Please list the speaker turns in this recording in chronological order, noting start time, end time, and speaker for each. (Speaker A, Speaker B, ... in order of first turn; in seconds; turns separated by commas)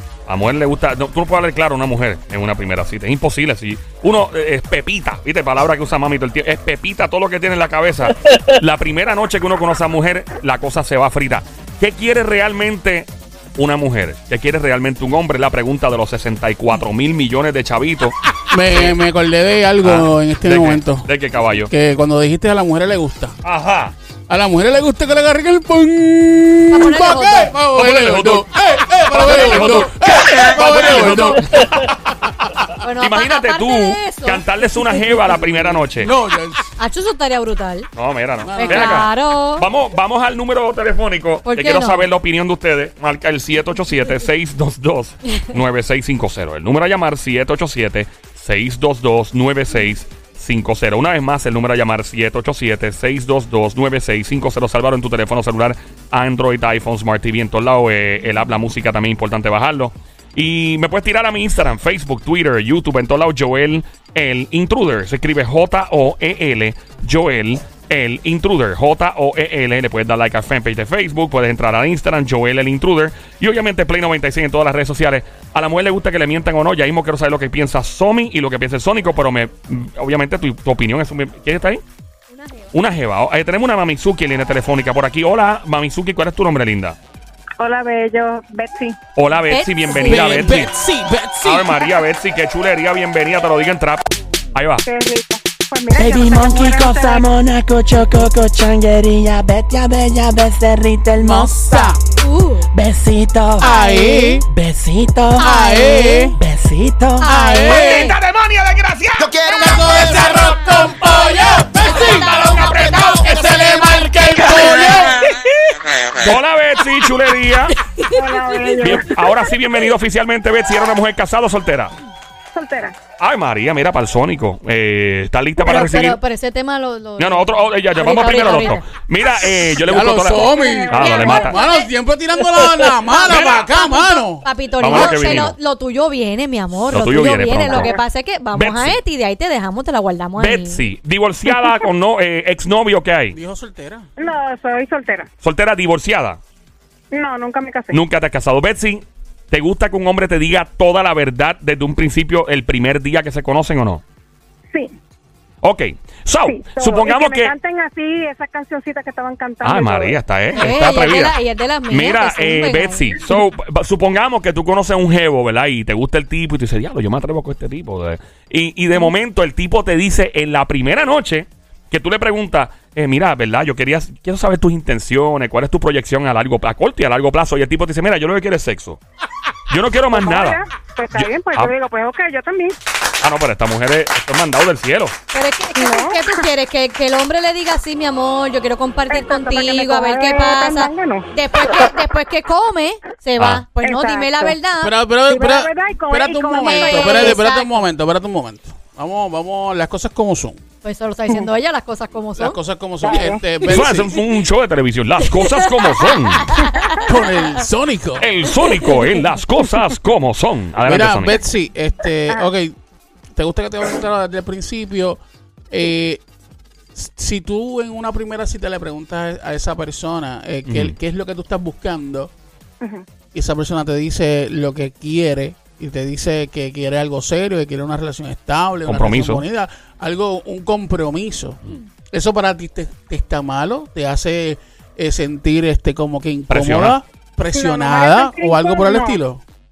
Speaker A: 0.3-18.1, Speaker B: 18.5-23.4, Speaker A: 18.7-19.0, Speaker A: 19.8-21.7, Speaker A: 23.4-23.9, Speaker B: 24.3-32.5, Speaker C: 26.7-27.6, Speaker A: 27.8-28.5, Speaker A: 29.1-31.9, Speaker C: 29.2-29.9, Speaker A: 32.7-36.1, Speaker C: 32.8-35.2, Speaker B: 35.7-36.7, Speaker C: 36.8-37.9, Speaker A: 38.0-81.8, Speaker B: 38.4-39.1, Speaker C: 38.6-39.7, Speaker C: 41.5-42.1, Speaker C: 82.3-82.7, Speaker A: 82.7-87.0, Speaker D: 87.6-89.0, Speaker A: 89.2-90.8, Speaker C: 89.4-90.5, Speaker B: 90.0-91.9, Speaker A: 91.4-94.9, Speaker D: 94.9-97.3, Speaker E: 95.9-101.9, Speaker B: 101.2-102.0, Speaker C: 102.2-102.7, Speaker E: 102.7-103.8, Speaker B: 103.6-104.5, Speaker C: 103.6-104.4, Speaker E: 104.5-105.5, Speaker C: 105.4-106.3, Speaker B: 105.4-106.4, Speaker E: 106.4-107.4, Speaker C: 107.2-108.2, Speaker B: 107.2-108.2, Speaker A: 108.0-109.3, Speaker E: 109.3-110.5, Speaker B: 109.4-115.3, Speaker C: 111.8-113.7, Speaker B: 116.1-116.4, Speaker A: 116.2-117.8, Speaker C: 118.0-118.8, Speaker D: 118.1-119.5, Speaker A: 118.8-122.0, Speaker D: 122.5-123.0, Speaker A: 123.2-126.2, Speaker C: 125.6-128.8, Speaker A: 127.2-131.7, Speaker B: 129.5-135.2, Speaker D: 130.3-131.5, Speaker C: 131.1-131.7, Speaker C: 132.9-140.8, Speaker A: 133.3-133.6, Speaker A: 134.8-135.6, Speaker A: 136.9-138.0, Speaker D: 137.7-138.0, Speaker A: 138.5-139.0, Speaker A: 140.4-143.4, Speaker B: 143.3-144.1, Speaker D: 144.2-145.3, Speaker A: 145.4-146.4, Speaker D: 147.1-148.0, Speaker A: 147.9-154.0, Speaker A: 155.6-157.5, Speaker D: 156.5-160.2, Speaker A: 159.6-161.4, Speaker C: 160.6-163.3, Speaker A: 161.9-179.0, Speaker A: 179.7-180.6, Speaker D: 180.1-182.8, Speaker A: 181.1-181.7, Speaker A: 183.2-185.2, Speaker C: 185.3-195.0, Speaker D: 185.8-186.4, Speaker D: 189.1-191.3, Speaker A: 193.4-193.6, Speaker D: 193.8-194.6, Speaker B: 194.8-200.6, Speaker D: 195.3-197.4, Speaker C: 196.6-197.9, Speaker C: 200.8-202.6, Speaker B: 202.4-204.1, Speaker D: 203.0-203.4, Speaker A: 203.7-206.5, Speaker C: 205.2-207.1, Speaker B: 206.9-208.3, Speaker A: 208.2-211.4, Speaker B: 210.8-212.8, Speaker B: 213.3-216.2, Speaker B: 216.9-222.3, Speaker A: 220.7-221.0, Speaker B: 223.3-239.4, Speaker A: 228.8-229.4, Speaker A: 236.5-237.0, Speaker D: 237.5-239.2